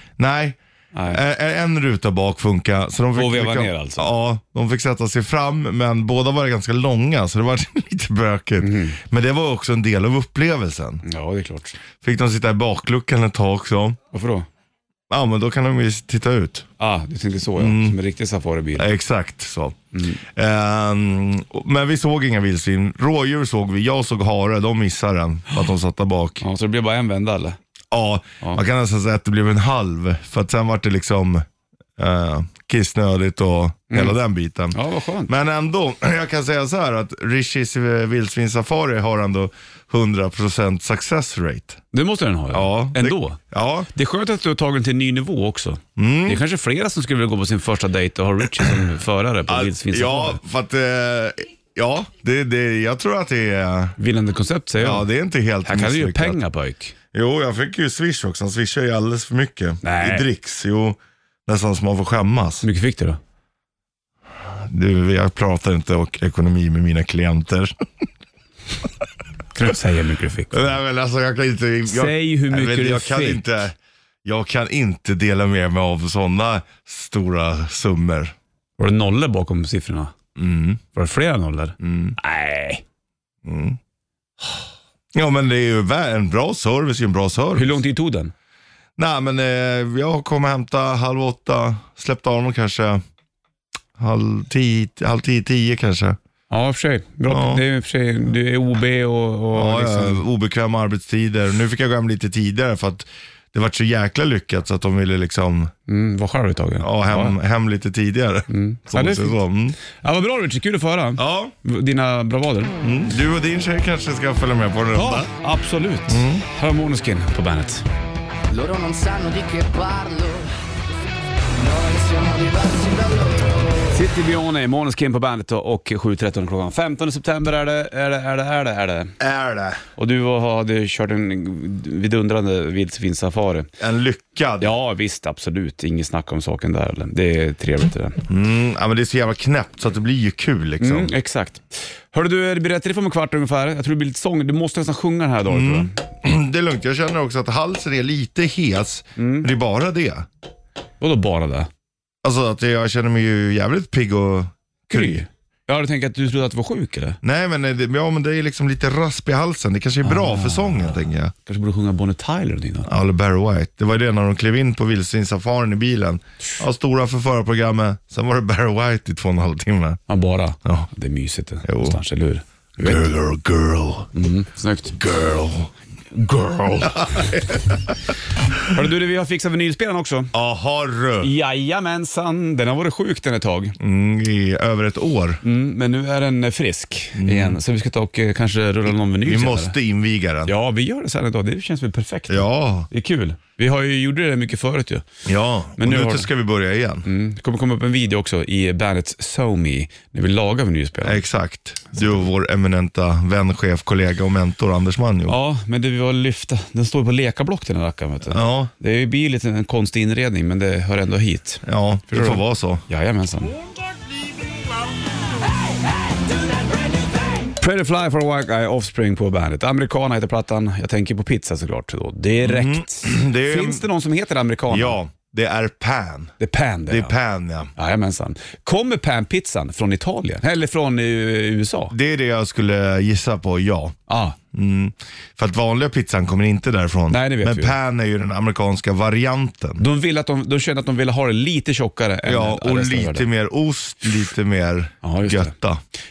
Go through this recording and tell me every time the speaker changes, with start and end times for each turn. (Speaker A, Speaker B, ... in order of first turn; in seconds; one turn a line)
Speaker A: 0.2-11.0
Speaker B: 0.9-1.2
Speaker B: 3.1-4.1
Speaker B: 8.6-9.0
Speaker B: 11.0-11.8
Speaker A: 12.0-14.0
Speaker B: 14.1-14.5
Speaker A: 15.1-16.7
Speaker B: 16.8-18.9
Speaker A: 17.6-18.0
Speaker A: 18.8-26.4
Speaker B: 19.9-20.2
Speaker B: 26.4-27.6
Speaker A: 27.9-31.5
Speaker A: 32.0-41.8
Speaker B: 33.9-34.2
Speaker B: 34.7-35.3
Speaker B: 41.9-43.4
Speaker A: 42.5-43.9
Speaker B: 43.9-50.4
Speaker A: 46.0-46.4
Speaker A: 49.5-54.0
Speaker B: 54.0-55.1
Speaker A: 54.8-56.4
Speaker B: 55.6-56.9
Speaker A: 57.1-62.7
Speaker B: 59.8-60.3
Speaker B: 62.6-63.2
Speaker A: 64.5-67.7
Speaker B: 69.5-70.7
Speaker A: 70.5-78.3
Speaker B: 71.9-73.5
Speaker B: 78.8-80.1
Speaker A: 80.4-80.8
Speaker B: 80.9-82.8
Speaker A: 81.8-82.2
Speaker A: 83.4-83.8
Speaker A: 85.1-87.8
Speaker B: 87.5-88.3
Speaker A: 89.0-93.0
Speaker A: 94.0-96.2
Speaker B: 96.5-100.2
Speaker A: 97.3-97.6
Speaker A: 99.5-105.7
Speaker B: 105.9-107.4
Speaker A: 106.8-109.8
Speaker B: 108.5-112.8
Speaker A: 111.2-111.5
Speaker A: 112.8-115.3
Speaker B: 114.9-117.9
Speaker A: 116.1-116.5
Speaker C: 118.5-120.5
Speaker C: 121.6-124.0
Speaker B: 123.9-129.2
Speaker A: 129.2-129.8
Speaker B: 130.0-133.7
Speaker A: 133.8-134.7
Speaker B: 134.6-138.2
Speaker A: 138.3-141.1
Speaker B: 140.8-146.0
Speaker A: 145.5-150.3
Speaker B: 149.2-149.5
Speaker B: 151.0-151.7
Speaker A: 152.2-155.2
Speaker B: 154.9-157.2
Speaker A: 157.2-161.3
Speaker B: 160.0-162.9
Speaker A: 162.9-170.0
Speaker B: 170.1-173.1
Speaker A: 171.6-172.0
Speaker A: 172.8-174.1
Speaker B: 174.1-175.0
Speaker A: 175.0-175.7
Speaker B: 176.1-177.3
Speaker A: 176.8-177.9
Speaker B: 178.7-180.3
Speaker A: 180.3-181.3
Speaker B: 181.2-183.8
Speaker A: 183.8-185.4
Speaker B: 185.4-189.8
Speaker A: 187.2-187.6
Speaker A: 189.2-190.5
Speaker B: 190.5-195.1
Speaker A: 192.3-192.9
Speaker A: 195.3-197.1
Speaker B: 195.8-196.3
Speaker B: 197.1-201.2
Speaker A: 201.0-205.4
Speaker B: 205.3-213.5
Speaker A: 208.3-208.7
Speaker A: 211.6-212.8
Speaker B: 217.6-225.0
Speaker A: 222.4-223.9
Speaker A: 224.7-226.3
Speaker B: 226.4-227.2
Speaker A: 226.9-227.7
Speaker B: 227.8-231.9
Speaker A: 231.9-233.9
Speaker B: 234.1-234.4
Speaker A: 234.5-239.8
Speaker B: 237.1-237.8
Speaker B: 239.8-243.3
Speaker A: 242.2-245.8
Speaker B: 245.0-245.5